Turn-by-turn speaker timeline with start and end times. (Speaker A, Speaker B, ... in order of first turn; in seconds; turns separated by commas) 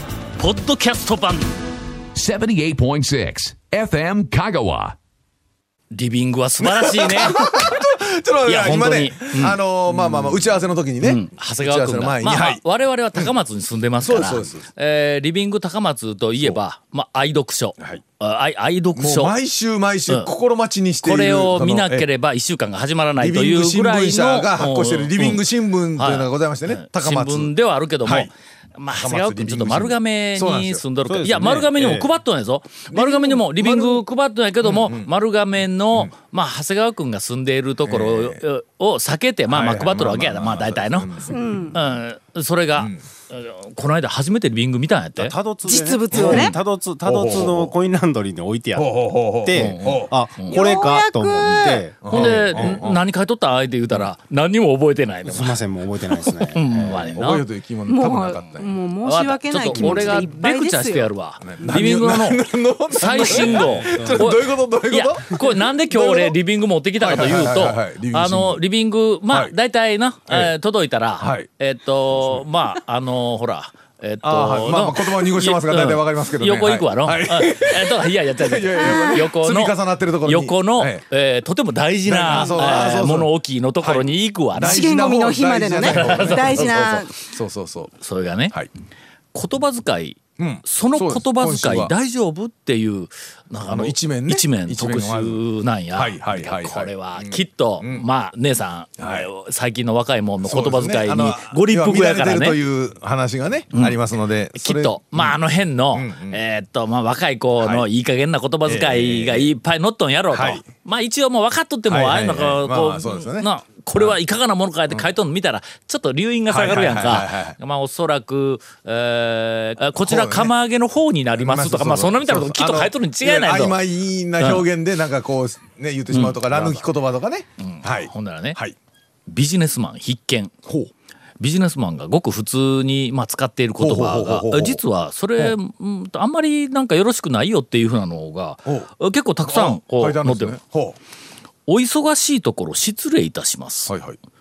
Speaker A: 0.4-1.5, Speaker B: 2.1-5.0, Speaker A: 5.9-7.8, Speaker C: 6.6-12.6, Speaker A: 8.4-9.6, Speaker A: 11.0-19.3, Speaker C: 14.0-14.7, Speaker C: 18.9-22.1, Speaker A: 21.0-25.4, Speaker C: 23.2-27.5, Speaker A: 25.9-45.3, Speaker C: 28.0-28.3, Speaker C: 28.9-30.8, Speaker D: 31.1-32.1, Speaker C: 32.9-34.0, Speaker C: 34.6-35.1, Speaker C: 37.8-38.4, Speaker C: 39.5-41.6, Speaker E: 41.3-41.7, Speaker C: 42.8-43.0, Speaker D: 45.2-52.8, Speaker E: 45.6-46.5, Speaker C: 46.1-47.7, Speaker A: 46.1-46.5, Speaker C: 48.7-50.1, Speaker A: 49.5-50.6, Speaker E: 50.4-51.8, Speaker A: 51.4-55.6, Speaker C: 52.0-53.0, Speaker D: 55.2-57.2, Speaker A: 56.5-57.4, Speaker C: 57.0-58.7, Speaker E: 57.9-61.1, Speaker A: 59.0-84.8, Speaker D: 59.7-60.2, Speaker C: 61.4-66.3, Speaker D: 63.2-64.3, Speaker C: 67.0-68.6, Speaker C: 71.2-71.5, Speaker C: 74.2-81.0, Speaker E: 78.9-79.2, Speaker C: 82.0-87.9, Speaker E: 84.6-87.1, Speaker A: 85.8-87.1, Speaker A: 88.0-88.5, Speaker A: 89.3-102.6, Speaker C: 90.4-91.9, Speaker C: 93.7-95.4, Speaker C: 95.9-98.0, Speaker C: 99.0-99.3, Speaker C: 100.4-105.4, Speaker A: 103.7-104.0, Speaker A: 104.5-123.8, Speaker C: 105.9-106.4, Speaker C: 107.6-107.8, Speaker C: 108.6-109.5, Speaker C: 110.3-110.6, Speaker C: 111.9-114.2, Speaker C: 116.5-117.6, Speaker C: 120.0-120.5, Speaker C: 121.4-128.7, Speaker A: 124.4-124.7, Speaker A: 126.1-126.9, Speaker A: 127.6-128.6, Speaker A: 129.3-130.5, Speaker A: 131.4-140.6, Speaker C: 133.8-134.8, Speaker C: 139.4-141.0, Speaker A: 141.7-143.9, Speaker C: 143.9-144.2